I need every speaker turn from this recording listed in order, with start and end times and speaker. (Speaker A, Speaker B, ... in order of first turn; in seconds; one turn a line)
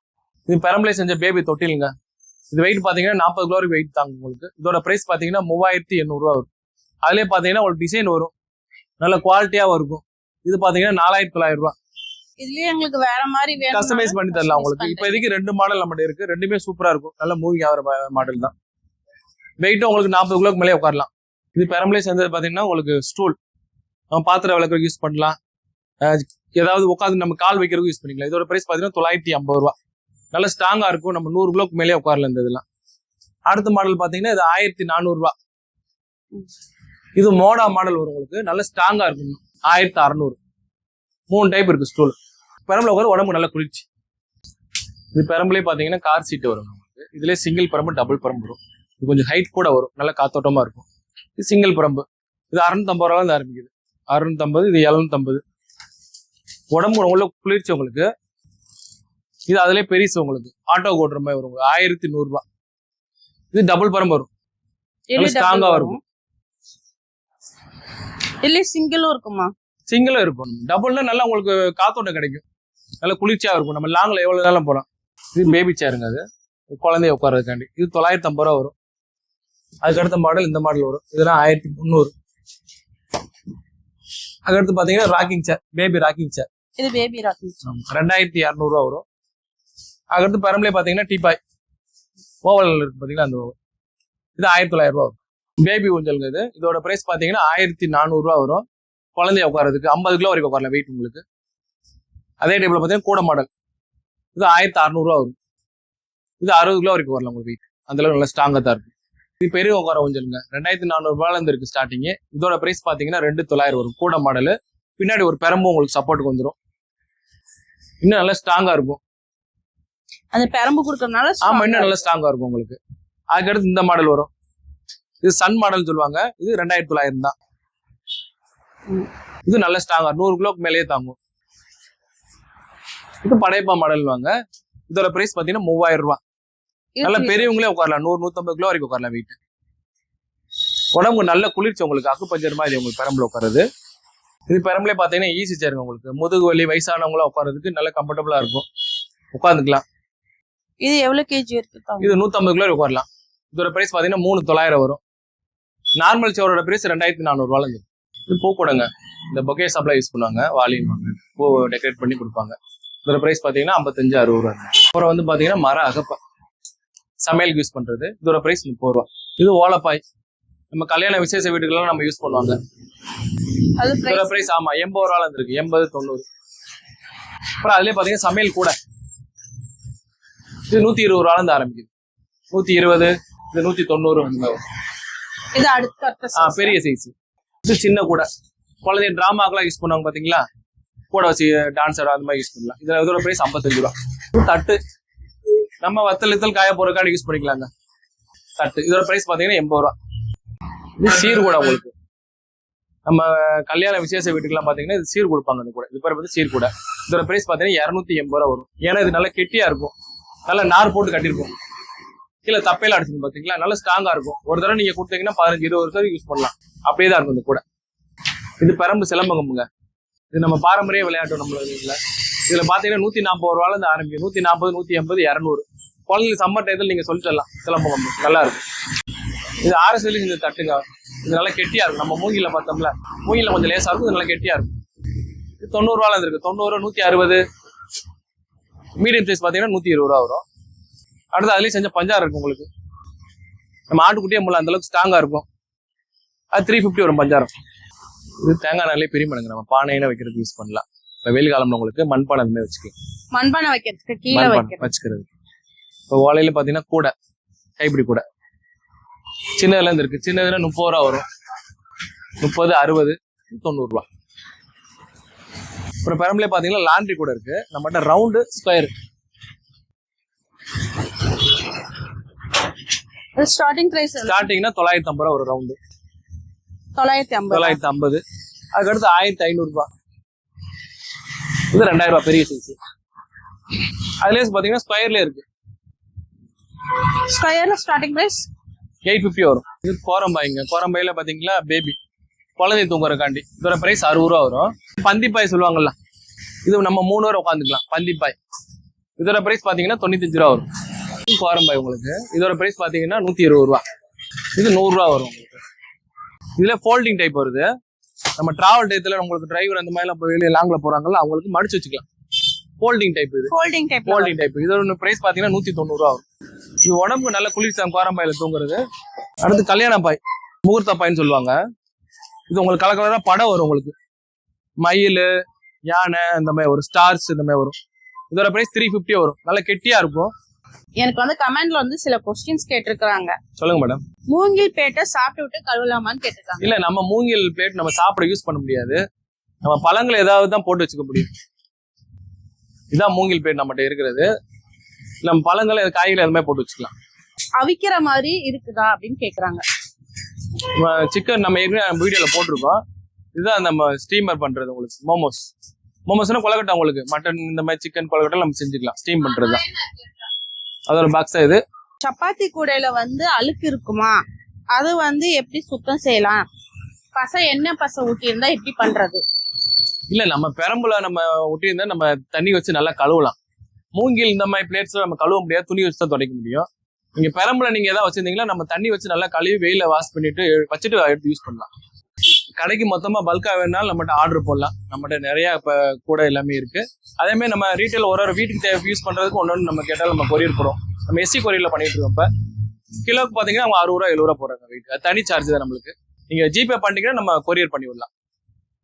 Speaker A: 0.5-1.9
Speaker A: 2.5-6.5
Speaker A: 7.0-8.3
Speaker A: 9.0-11.8
Speaker B: 12.4-15.2
Speaker A: 13.7-18.5
Speaker A: 19.6-23.4
Speaker A: 24.1-25.4
Speaker A: 26.0-29.8
Speaker A: 30.3-32.6
Speaker A: 33.5-35.3
Speaker A: 37.2-40.4
Speaker A: 41.3-43.9
Speaker A: 45.1-50.9
Speaker A: 51.4-55.4
Speaker A: 56.7-58.1
Speaker A: 59.5-62.4
Speaker A: 63.5-64.3
Speaker B: 65.1-66.0
Speaker A: 65.2-66.0
Speaker B: 68.4-69.5
Speaker A: 69.9-72.4
Speaker A: 73.0-78.8
Speaker A: 79.8-82.1
Speaker A: 84.5-86.5
Speaker B: 86.8-87.6
Speaker A: 87.7-89.0
Speaker A: 90.1-91.4
Speaker A: 92.4-93.6
Speaker A: 94.4-98.6
Speaker A: 99.2-101.2
Speaker A: 102.4-103.5
Speaker A: 104.3-105.3
Speaker A: 106.4-116.6
Speaker A: 118.0-119.0
Speaker B: 120.3-122.0
Speaker A: 121.4-122.8
Speaker A: 123.3-124.3
Speaker A: 125.2-127.3
Speaker A: 129.5-131.2
Speaker A: 133.2-134.3
Speaker A: 134.9-136.2
Speaker B: 137.0-137.5
Speaker A: 137.0-139.4
Speaker A: 140.9-143.6
Speaker A: 144.5-148.7
Speaker A: 149.3-149.8
Speaker B: 150.8-152.2
Speaker A: 152.0-155.0
Speaker A: 156.0-166.2
Speaker A: 167.2-170.0
Speaker A: 170.7-172.6
Speaker B: 173.8-174.5
Speaker A: 174.0-176.3
Speaker A: 177.6-178.8
Speaker A: 180.7-181.9
Speaker A: 182.5-184.6
Speaker B: 185.5-186.8
Speaker A: 186.4-187.1
Speaker A: 187.7-188.3
Speaker A: 188.8-190.4
Speaker A: 191.1-194.8
Speaker A: 195.8-197.7
Speaker A: 198.6-200.0
Speaker A: 201.0-201.9
Speaker A: 203.1-209.9
Speaker A: 210.5-211.5
Speaker A: 212.4-217.6
Speaker A: 218.6-219.7
Speaker A: 220.3-228.6
Speaker A: 229.6-234.7
Speaker A: 235.6-237.4
Speaker A: 239.0-240.4
Speaker A: 241.3-242.7
Speaker A: 243.9-245.5
Speaker A: 246.5-247.5
Speaker A: 248.4-252.9
Speaker B: 253.3-254.9
Speaker A: 254.3-255.3
Speaker A: 256.1-257.1
Speaker A: 257.8-258.2
Speaker A: 259.6-261.2
Speaker A: 262.4-264.1
Speaker A: 266.0-268.9
Speaker B: 273.4-274.5
Speaker A: 274.2-275.8
Speaker B: 276.9-277.8
Speaker A: 277.5-278.2
Speaker A: 278.7-279.9
Speaker A: 281.7-282.8
Speaker A: 284.2-285.4
Speaker B: 287.3-288.5
Speaker A: 289.0-292.0
Speaker A: 292.6-295.9
Speaker A: 296.6-298.4
Speaker A: 299.2-300.7
Speaker A: 301.3-303.8
Speaker A: 304.6-305.6
Speaker A: 306.6-307.7
Speaker A: 308.4-312.1
Speaker A: 312.8-313.5
Speaker B: 313.5-314.3
Speaker A: 314.1-316.2
Speaker A: 316.9-318.8
Speaker A: 319.4-321.6
Speaker A: 322.5-323.9
Speaker A: 324.8-325.3
Speaker A: 325.9-327.8
Speaker A: 328.3-330.3
Speaker B: 331.0-333.4
Speaker A: 333.6-334.0
Speaker B: 334.3-336.7
Speaker A: 336.6-339.0
Speaker A: 339.6-341.3
Speaker A: 342.9-344.3
Speaker A: 345.2-346.9
Speaker B: 347.6-349.6
Speaker A: 350.8-352.8
Speaker A: 353.4-355.5
Speaker A: 356.1-359.6
Speaker A: 360.9-361.6
Speaker B: 362.0-364.2
Speaker B: 364.7-366.5
Speaker B: 367.1-369.2
Speaker A: 370.1-373.4
Speaker A: 373.9-381.7
Speaker A: 382.6-392.3
Speaker A: 393.0-398.1